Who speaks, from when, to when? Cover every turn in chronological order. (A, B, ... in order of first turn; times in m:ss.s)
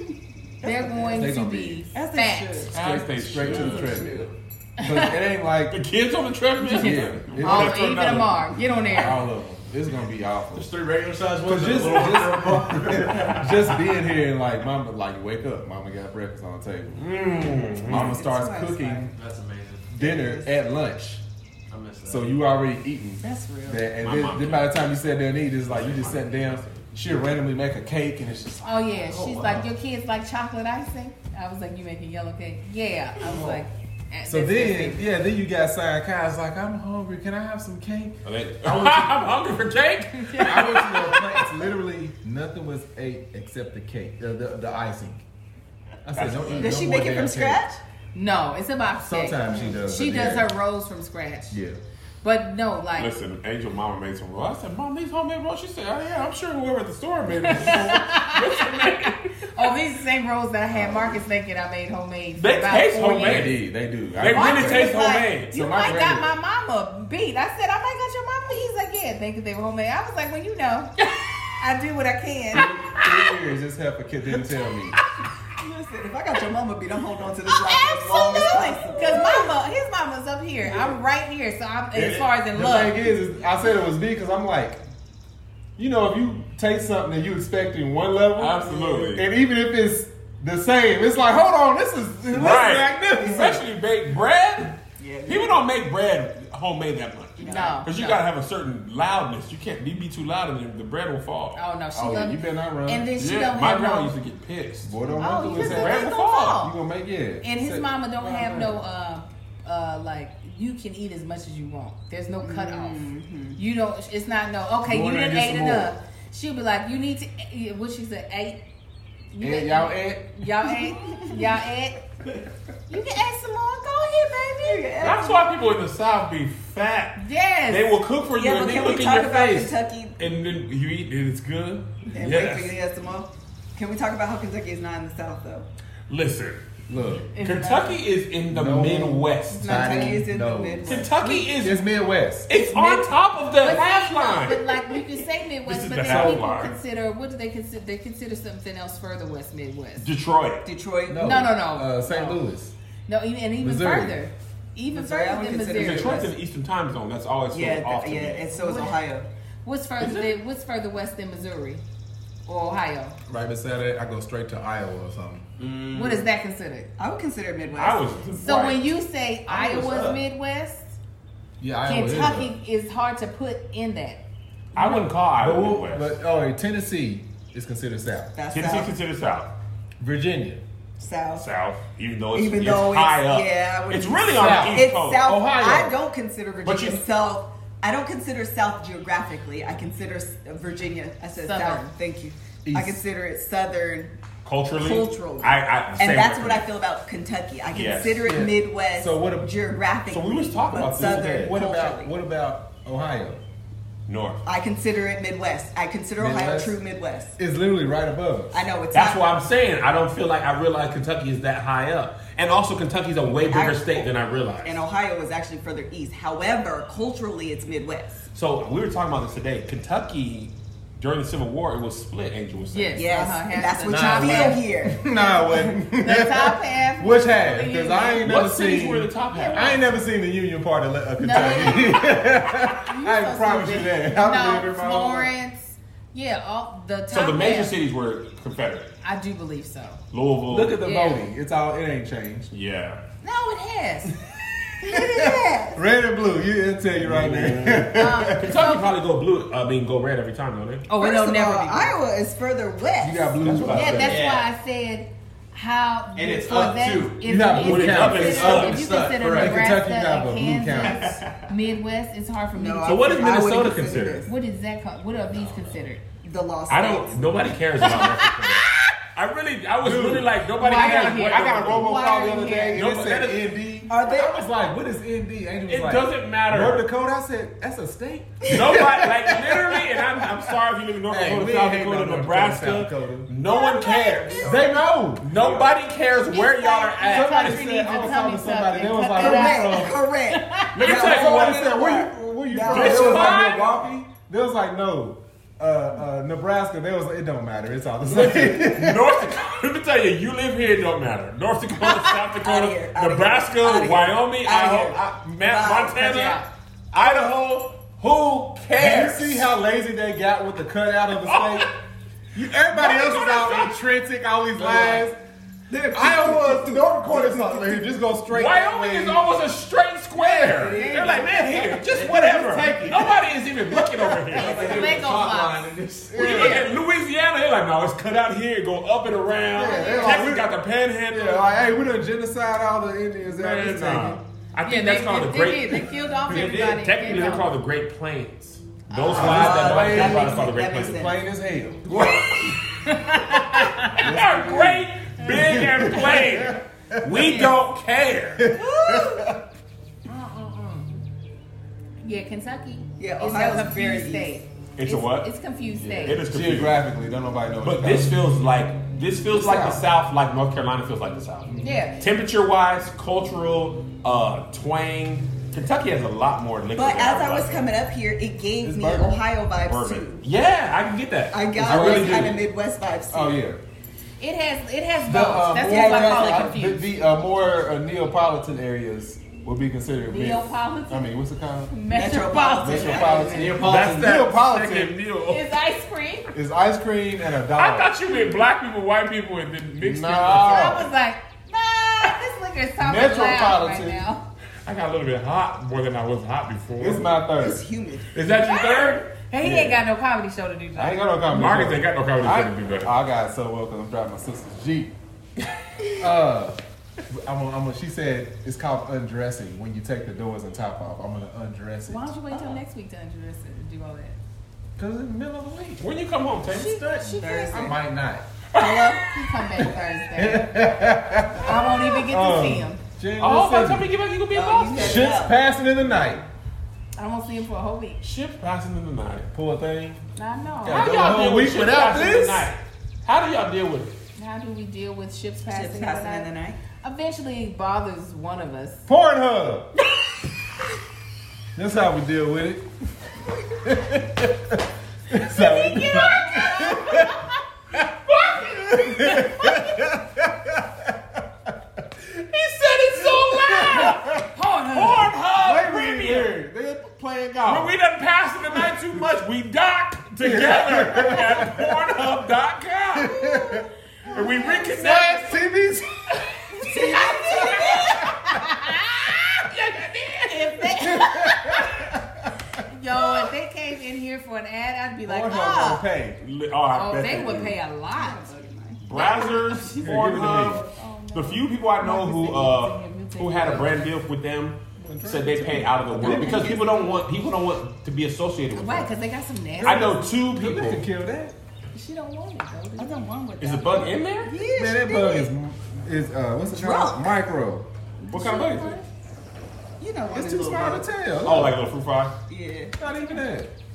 0:00.6-0:01.3 A
0:00.6-0:02.7 B
0:01.1-0:01.8 C
0:01.9-0:02.8 A
0:02.7-0:05.8 C
0:02.7-0:04.2 D
0:03.5-0:04.2 A
0:04.8-0:05.2 B
0:05.7-0:08.4 D
0:06.6-0:09.2 B
0:06.7-0:08.2 C
0:08.9-0:10.7 C
0:10.5-0:13.8 E
0:11.4-0:17.0 C
0:16.9-0:18.2 D
0:17.8-0:19.1 C
0:17.9-0:19.1 A
0:19.1-0:19.9 E
0:19.9-0:21.2 C
0:20.0-0:20.5 A
0:21.7-0:22.3 E
0:22.0-0:29.6 C
0:23.2-0:23.8 A
0:24.0-0:24.9 D
0:25.7-0:26.9 D
0:28.6-0:35.1 B
0:29.2-0:29.4 E
0:34.2-0:39.3 C
0:38.2-0:41.4 D
0:40.2-0:41.0 B
0:40.4-0:45.2 C
0:46.0-0:47.6 C
0:46.1-0:46.8 D
0:46.6-0:47.8 A
0:48.1-0:51.6 B
0:49.0-0:50.5 C
0:51.5-0:51.8 C
0:52.2-0:53.1 B
0:53.0-0:59.7 D
0:57.4-1:03.5 B
1:02.4-1:03.6 D
1:03.1-1:04.9 C
1:04.2-1:05.5 D
1:04.3-1:10.9 B
1:05.5-1:06.3 C
1:11.5-1:12.7 B
1:12.5-1:15.0 C
1:15.6-1:19.5 A
1:17.5-1:23.0 B
1:21.9-1:24.8 C
1:25.8-1:33.6 C
1:28.4-1:29.2 D
1:32.3-1:41.6 D
1:35.0-1:35.6 A
1:37.4-1:37.8 A
1:37.4-1:38.2 B
1:41.5-1:44.1 B
1:41.9-1:43.1 C
1:43.2-1:45.0 D
1:44.8-1:48.8 C
1:45.2-1:46.8 B
1:45.5-1:46.6 D
1:47.4-1:58.6 B
1:52.4-1:53.6 A
1:54.8-1:55.9 C
1:59.3-2:02.0 B
1:59.4-2:00.5 C
2:00.7-2:01.5 A
2:02.9-2:05.2 B
2:04.6-2:05.5 A
2:05.0-2:12.7 D
2:07.2-2:08.0 B
2:08.3-2:10.2 A
2:12.1-2:15.7 A
2:16.1-2:16.6 D
2:16.9-2:17.3 C
2:17.3-2:18.0 B
2:17.4-2:19.7 D
2:18.5-2:21.1 C
2:19.5-2:20.2 B
2:19.6-2:21.1 A
2:20.8-2:21.8 D
2:21.2-2:21.5 B
2:21.6-2:22.5 C
2:22.5-2:25.1 D
2:22.5-2:30.1 B
2:25.6-2:26.8 D
2:26.0-2:26.5 C
2:30.0-2:30.6 D
2:30.6-2:31.4 A
2:31.1-2:32.7 C
2:31.2-2:32.4 B
2:33.1-2:36.3 B
2:33.6-2:34.2 C
2:34.9-2:36.3 A
2:35.7-2:38.5 D
2:37.5-2:39.3 A
2:38.5-2:39.0 B
2:39.6-2:41.8 B
2:40.0-2:40.3 D
2:42.4-2:43.2 B
2:43.3-2:45.4 C
2:45.6-2:46.2 E
2:45.9-2:46.9 B
2:47.0-2:48.1 A
2:47.7-2:48.9 D
2:48.4-2:51.0 B
2:49.5-2:50.2 E
2:51.6-2:52.5 C
2:51.8-2:54.2 B
2:54.7-2:56.1 D
2:54.8-2:58.3 C
2:58.3-2:58.9 A
2:58.5-2:59.5 D
3:00.0-3:00.6 C
3:01.0-3:01.4 A
3:01.3-3:05.3 D
3:02.3-3:14.1 A
3:04.4-3:06.0 C
3:06.6-3:07.0 D
3:11.4-3:11.9 B
3:12.6-3:13.0 C
3:14.4-3:16.7 D
3:14.7-3:22.1 A
3:17.7-3:18.4 D
3:18.2-3:19.5 C
3:20.1-3:21.5 D
3:20.7-3:23.4 C
3:24.1-3:24.4 D
3:24.4-3:27.4 A
3:26.2-3:26.8 C
3:27.4-3:28.6 C
3:28.5-3:29.2 A
3:28.9-3:34.8 D
3:33.5-3:38.2 A
3:38.3-3:43.1 D
3:42.7-3:44.6 B
3:42.9-3:45.0 A
3:43.8-3:55.3 C
3:45.8-3:48.2 B
3:48.2-3:49.8 D
3:49.3-3:49.8 B
3:51.2-3:57.8 B
3:51.3-3:51.8 D
3:57.1-3:58.9 D
3:59.0-4:00.0 B
4:00.1-4:00.8 D
4:00.5-4:02.5 C
4:00.8-4:01.2 B
4:02.5-4:03.0 D
4:03.2-4:04.2 B
4:04.8-4:05.8 A
4:04.8-4:08.6 C
4:07.0-4:10.8 D
4:07.9-4:08.9 B
4:10.9-4:11.9 B
4:11.0-4:13.4 A
4:13.0-4:14.2 C
4:13.4-4:14.2 D
4:13.7-4:23.1 B
4:14.0-4:14.5 E
4:16.1-4:17.3 E
4:17.2-4:18.7 C
4:17.6-4:18.9 D
4:17.8-4:19.6 E
4:19.3-4:21.2 C
4:20.8-4:21.1 D
4:22.5-4:24.3 A
4:22.8-4:24.3 D
4:24.2-4:26.0 B
4:25.4-4:25.7 D
4:26.2-4:27.8 A
4:26.7-4:32.0 D
4:27.8-4:28.9 B
4:29.8-4:40.4 C
4:30.6-4:32.8 B
4:32.7-4:33.5 D
4:33.9-4:34.4 A
4:35.7-4:36.8 D
4:38.5-4:44.6 D
4:41.1-4:43.3 C
4:43.5-4:44.8 A
4:44.4-4:45.3 C
4:45.2-4:47.6 D
4:45.3-4:45.7 E
4:46.3-4:50.9 B
4:47.0-4:50.0 C
4:49.1-4:53.5 A
4:50.7-4:51.7 D
4:50.9-4:59.2 C
4:52.6-4:53.8 D
4:58.0-5:09.5 D
5:01.8-5:02.1 B
5:02.4-5:06.3 A
5:06.0-5:06.5 B
5:08.7-5:11.7 C
5:11.2-5:11.7 D
5:12.3-5:15.2 C
5:12.7-5:13.7 D
5:14.6-5:15.1 E
5:15.7-5:16.8 E
5:15.9-5:19.2 C
5:18.3-5:24.8 D
5:20.6-5:21.6 B
5:20.6-5:24.7 C
5:24.3-5:26.2 E
5:24.5-5:26.7 B
5:26.1-5:26.7 C
5:26.1-5:31.5 D
5:29.5-5:30.5 C
5:29.6-5:30.3 B
5:31.1-5:34.2 C
5:33.3-5:41.0 D
5:34.6-5:37.5 B
5:36.3-5:36.7 E
5:39.0-5:41.1 A
5:39.1-5:41.9 C
5:41.9-5:42.6 D
5:42.8-5:44.1 B
5:43.3-5:48.5 D
5:44.0-5:47.3 C
5:47.2-5:47.5 B
5:48.4-5:49.4 C
5:48.5-5:49.3 A
5:50.2-5:50.5 B
5:52.0-5:56.2 B
5:53.0-5:54.3 A
5:54.8-5:55.3 D
5:55.8-5:58.2 C
5:56.0-5:56.8 D
5:57.6-6:07.7 D
5:59.3-5:59.8 C
6:01.6-6:02.0 B
6:06.8-6:10.2 A
6:08.6-6:09.2 C
6:09.6-6:12.4 D
6:11.3-6:13.4 A
6:11.6-6:12.4 C
6:13.1-6:13.6 C
6:14.2-6:16.9 B
6:15.0-6:21.7 C
6:15.6-6:16.6 A
6:20.1-6:21.1 B
6:21.7-6:23.6 B
6:21.9-6:23.6 A
6:22.6-6:25.0 C
6:23.3-6:24.2 E
6:23.6-6:25.4 D
6:25.3-6:26.3 B
6:26.3-6:27.9 C
6:27.5-6:30.8 D
6:29.8-6:30.9 C
6:30.3-6:34.2 B
6:32.8-6:34.0 C
6:34.6-6:37.1 D
6:36.8-6:37.6 C
6:37.4-6:38.1 A
6:38.1-6:39.0 D
6:38.3-6:41.0 B
6:39.4-6:39.8 C
6:40.8-6:44.9 C
6:41.3-6:42.9 D
6:46.0-6:46.6 C
6:47.1-6:52.0 C
6:51.9-6:54.2 B
6:52.3-6:52.6 A
6:54.8-6:55.8 C
6:55.8-6:56.8 D
6:56.5-6:57.8 B
6:57.0-6:57.8 A
6:57.5-6:58.3 C
6:58.5-6:59.2 D
6:58.6-6:59.0 A
6:59.0-7:00.7 B
7:00.2-7:03.9 C
7:01.3-7:02.8 B
7:01.6-7:01.9 D
7:03.2-7:05.2 D
7:04.3-7:05.4 A
7:04.7-7:06.2 C
7:07.0-7:08.0 B
7:08.0-7:09.3 D
7:09.3-7:10.0 C
7:10.2-7:11.2 B
7:10.6-7:12.5 C
7:10.6-7:13.9 D
7:14.2-7:16.3 B
7:15.5-7:16.6 A
7:16.8-7:18.8 B
7:18.9-7:19.7 C
7:21.6-7:22.6 C
7:23.5-7:27.2 C
7:25.2-7:27.4 B
7:28.1-7:29.3 D
7:28.2-7:29.8 B
7:28.5-7:32.0 C
7:32.1-7:34.2 D
7:32.9-7:34.2 C
7:34.3-7:35.1 B
7:34.7-7:36.3 D
7:35.4-7:37.7 C
7:37.4-7:43.2 D
7:38.5-7:38.8 C
7:40.2-7:41.7 C
7:42.9-7:46.2 C
7:43.3-7:43.5 B
7:44.1-7:44.7 B
7:44.1-7:45.4 D
7:46.6-7:48.0 A
7:46.6-7:49.3 B
7:47.1-7:48.0 D
7:47.9-7:48.2 C
7:49.1-7:50.7 D
7:50.2-7:51.8 B
7:50.8-7:52.3 C
7:52.7-7:55.8 B
7:55.0-7:56.2 C
7:56.2-7:57.6 D
7:56.7-7:58.3 B
7:57.9-7:58.8 A
7:58.8-8:08.9 D
7:58.9-8:03.9 B
7:59.8-8:00.6 C
8:04.8-8:06.6 C
8:06.0-8:07.0 A
8:08.5-8:10.1 B
8:09.6-8:10.8 D
8:10.3-8:11.3 C
8:11.7-8:13.0 B
8:12.8-8:15.3 A
8:13.4-8:14.3 D
8:14.5-8:17.7 C
8:16.5-8:17.2 A
8:18.0-8:18.8 B
8:18.1-8:18.8 D
8:19.8-8:20.9 A
8:20.1-8:21.6 C
8:21.2-8:22.2 D
8:22.3-8:22.8 A
8:22.8-8:23.5 C